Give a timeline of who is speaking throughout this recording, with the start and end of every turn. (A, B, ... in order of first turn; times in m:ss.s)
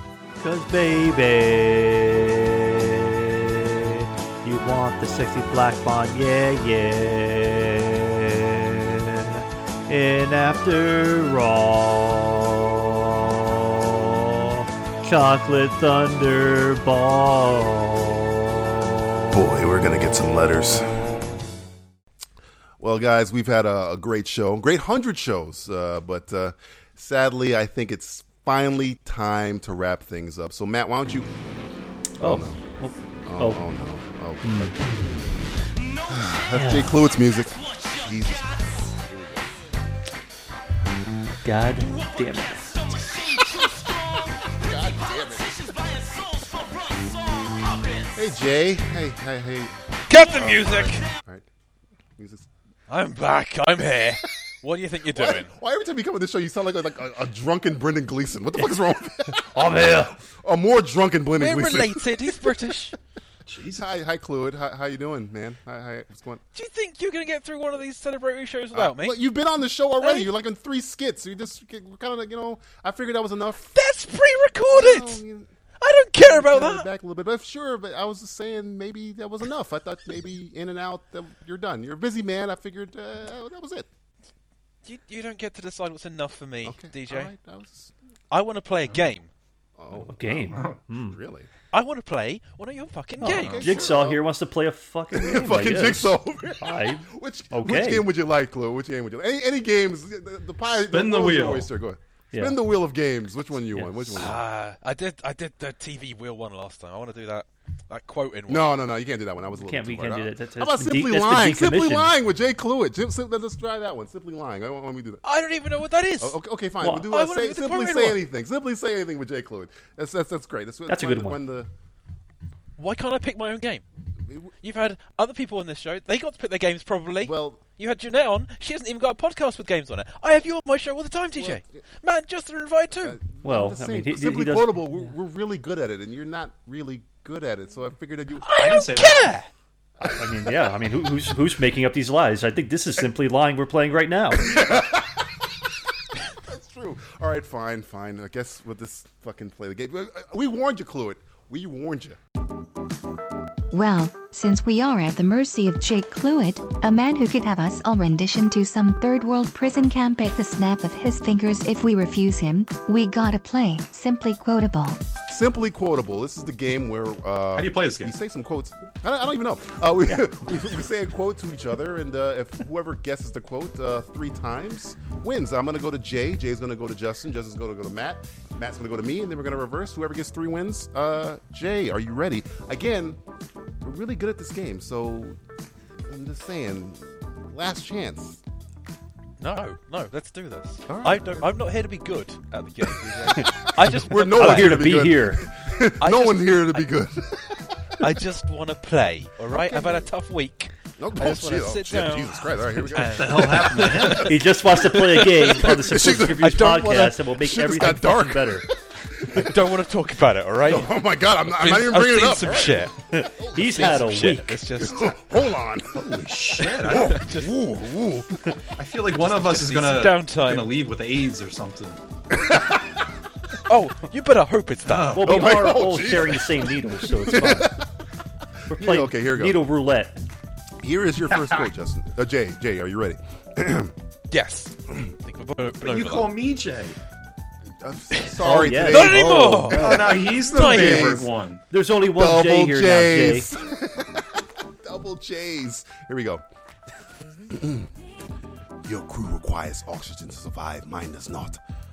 0:00.4-0:18.3 A
0:19.3-0:20.9 B
0:22.8-0:31.3 B
0:32.2-0:32.6 B
0:32.2-0:33.6 A
0:33.2-0:35.4 B
0:34.4-0:35.1 A
0:36.1-0:39.5 B
0:36.6-0:37.0 A
0:41.4-0:42.9 A
0:44.4-0:45.6 B
0:48.1-0:51.4 B
0:50.1-0:51.0 C
0:52.2-0:52.5 B
0:52.9-0:55.5 C
0:55.1-1:02.3 B
0:59.5-1:00.2 A
1:01.4-1:03.0 C
1:03.5-1:03.8 D
1:03.6-1:06.4 B
1:06.5-1:09.2 C
1:08.7-1:13.7 B
1:10.0-1:10.3 C
1:13.7-1:15.2 C
1:14.7-1:15.5 B
1:15.8-1:16.9 C
1:16.2-1:23.9 B
1:24.8-1:27.3 C
1:26.6-1:27.9 B
1:28.3-1:29.3 C
1:29.8-1:31.5 B
1:30.1-1:31.2 A
1:31.7-1:33.8 C
1:33.2-1:38.1 A
1:33.3-1:34.2 B
1:35.1-1:44.4 B
1:40.9-1:41.7 D
1:42.3-1:42.6 A
1:43.8-1:44.3 A
1:44.2-1:48.8 C
1:48.5-1:55.2 B
1:49.6-1:52.1 A
1:55.2-1:58.2 C
1:56.2-2:01.7 B
2:00.9-2:01.4 A
2:02.8-2:03.8 C
2:04.6-2:13.2 C
2:07.2-2:07.6 B
2:11.4-2:11.6 B
2:13.0-2:18.5 B
2:13.4-2:15.0 A
2:18.5-2:19.5 C
2:18.5-2:19.4 D
2:20.2-2:24.6 A
2:24.5-2:25.0 B
2:26.5-2:32.2 B
2:33.7-2:45.0 E
2:45.3-3:03.2 B
2:47.6-2:48.1 D
3:03.8-3:05.4 B
3:06.1-3:08.4 B
3:09.4-3:14.9 C
3:10.9-3:11.5 B
3:13.3-3:17.6 B
3:14.3-3:15.4 A
3:16.0-3:16.9 C
3:18.0-3:27.2 C
3:19.7-3:20.0 B
3:21.0-3:24.1 B
3:23.2-3:24.3 D
3:23.3-3:28.6 A
3:25.6-3:26.5 B
3:27.4-3:28.7 B
3:29.2-3:29.5 B
3:29.3-3:30.9 C
3:30.7-3:32.9 B
3:31.5-3:33.0 C
3:33.1-3:34.6 A
3:33.5-3:35.2 C
3:33.6-3:33.9 B
3:34.8-3:38.3 B
3:36.0-3:37.3 D
3:36.9-3:37.6 C
3:38.8-3:42.0 D
3:39.4-3:40.8 C
3:43.7-3:45.3 C
3:44.8-3:45.3 D
3:45.2-3:47.7 A
3:45.2-3:46.4 B
3:47.2-3:47.8 B
3:48.7-3:49.6 B
3:48.8-3:50.2 A
3:50.8-3:53.9 B
3:54.3-3:56.4 C
3:55.8-3:57.0 D
3:57.8-4:01.3 B
3:58.4-4:00.1 A
3:58.9-4:01.2 C
3:59.7-4:01.6 D
4:01.7-4:03.5 A
4:02.2-4:06.4 B
4:07.5-4:07.9 B
4:08.8-4:11.6 B